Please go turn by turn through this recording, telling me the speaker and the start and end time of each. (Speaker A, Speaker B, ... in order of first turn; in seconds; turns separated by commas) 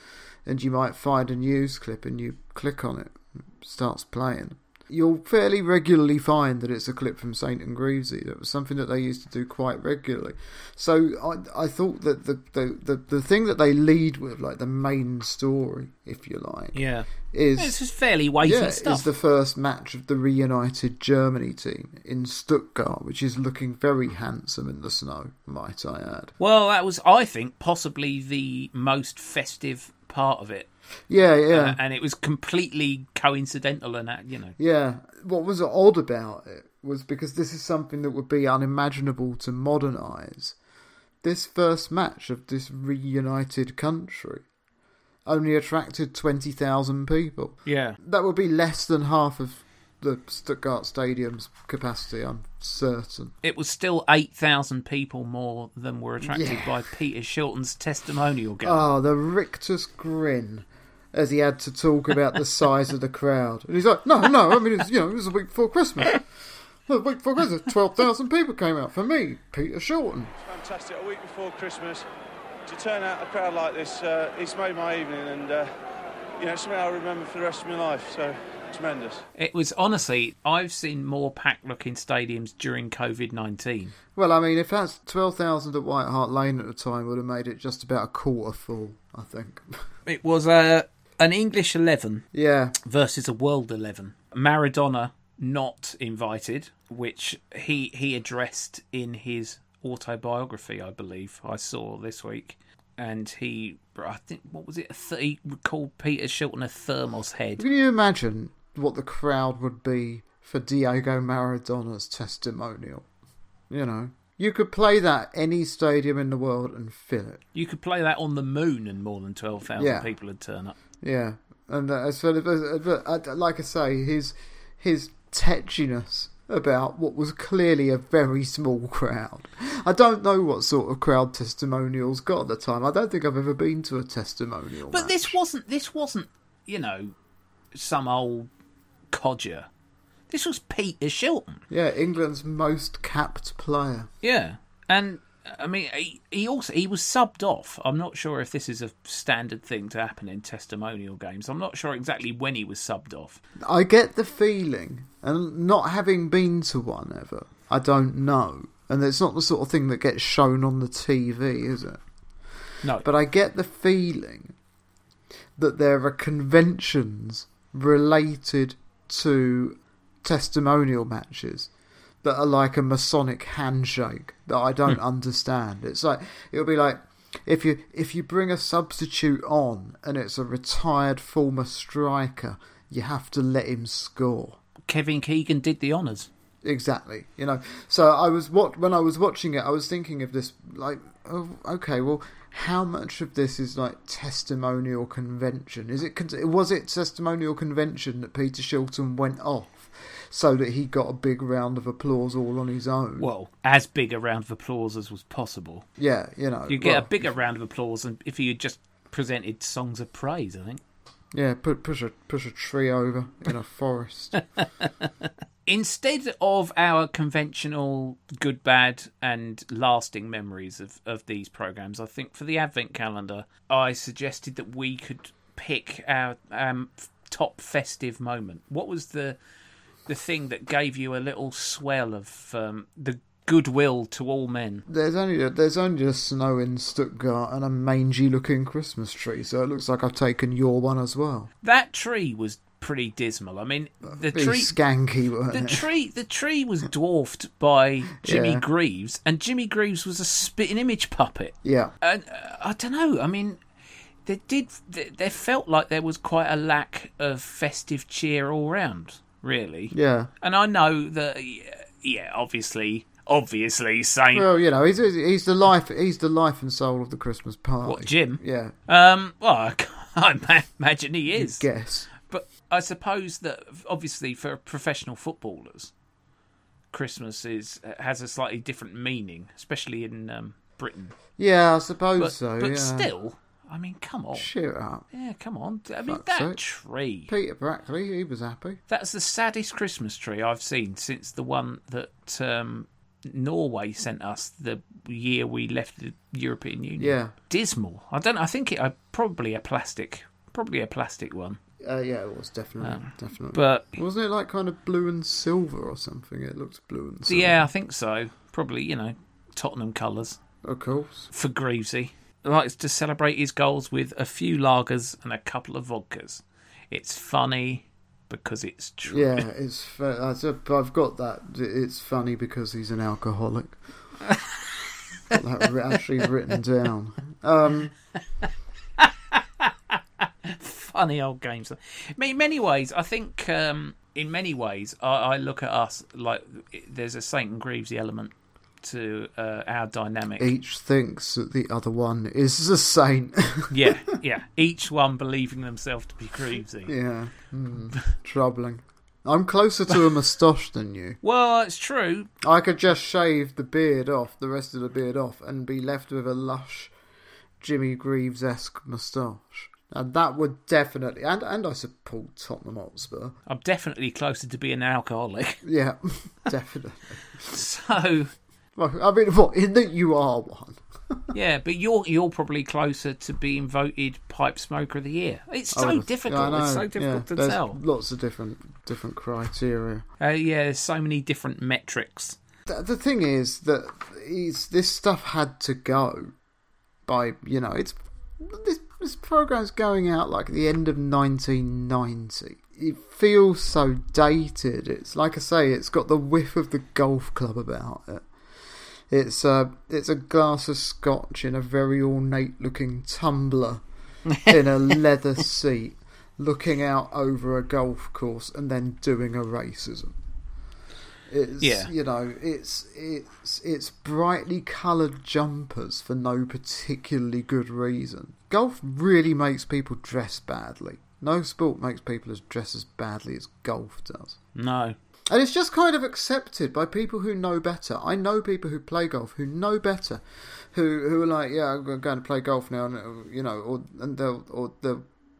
Speaker A: 0.5-17.8, Speaker B: 16.7-19.1, Speaker A: 18.4-26.3, Speaker B: 26.4-30.7, Speaker A: 31.1-31.8, Speaker B: 31.5-34.5, Speaker A: 34.6-40.5, Speaker A: 41.2-44.4, Speaker A: 45.2-53.3, Speaker B: 47.6-48.0, Speaker B: 53.4-58.8, Speaker A: 56.2-56.8, Speaker A: 58.6-66.3, Speaker A: 66.8-70.3, Speaker C: 70.5-72.0, Speaker C: 72.7-75.7, Speaker C: 76.4-79.2, Speaker B: 79.4-83.9, Speaker A: 84.1-89.8, Speaker B: 90.0-92.2, Speaker A: 92.3-92.8, Speaker B: 92.8-107.6, Speaker A: 107.6-113.0, Speaker A: 113.7-117.4, Speaker B: 117.5-120.7, Speaker A: 119.8-120.1, Speaker A: 121.0-135.4, Speaker B: 134.9-137.1, Speaker B: 137.7-138.5, Speaker B: 139.1-139.7, Speaker B: 140.3-141.6, Speaker A: 141.7-144.1, Speaker B: 144.2-153.4, Speaker A: 153.6-162.0, Speaker A: 163.0-164.5, Speaker A: 165.6-171.7, Speaker A: 172.2-184.6, Speaker B: 184.9-186.3, Speaker A: 186.6-203.3, Speaker B: 203.2-205.8, Speaker A: 206.0-207.1, Speaker B: 206.7-210.8, Speaker A: 211.3-214.4, Speaker B: 214.6-215.1, Speaker B: 215.7-229.4, Speaker B: 230.1-234.8, Speaker A: 234.9-241.5, Speaker B: 241.6-244.8, Speaker A: 244.1-245.9, Speaker B: 245.5-253.6, Speaker A: 248.2-248.6, Speaker A: 251.6-251.9, Speaker B: 254.2-264.5, Speaker A: 259.9-260.3, Speaker A: 264.3-268.7, Speaker B: 267.8-275.9, Speaker A: 271.3-272.1, Speaker B: 276.9-281.1, Speaker A: 281.4-283.1, Speaker B: 282.2-284.5, Speaker A: 284.3-285.0, Speaker B: 285.1-287.3, Speaker A: 286.1-286.6, Speaker A: 287.3-288.8, Speaker B: 288.9-301.6, Speaker A: 297.0-297.3, Speaker A: 301.8-307.6, Speaker B: 302.8-304.0, Speaker B: 307.2-310.4, Speaker A: 310.6-311.3, Speaker B: 311.3-319.5, Speaker A: 319.1-323.8, Speaker B: 324.3-324.7, Speaker A: 325.3-327.9, Speaker B: 328.4-340.5, Speaker A: 340.4-344.0, Speaker B: 343.7-346.9, Speaker A: 346.9-351.2, Speaker B: 351.2-352.3, Speaker A: 352.4-356.9, Speaker A: 357.6-363.3, Speaker B: 363.5-365.6, Speaker A: 365.6-367.2, Speaker B: 367.4-368.3, Speaker A: 368.8-371.3, Speaker B: 371.3-377.8, Speaker A: 375.7-380.0, Speaker B: 380.2-382.4, Speaker A: 382.6-386.3, Speaker A: 387.1-398.2, Speaker A: 399.1-403.8, Speaker B: 404.3-404.6, Speaker A: 404.4-410.1, Speaker A: 411.3-424.4, Speaker B: 411.6-411.9, Speaker B: 424.5-424.9, Speaker A: 425.3-435.1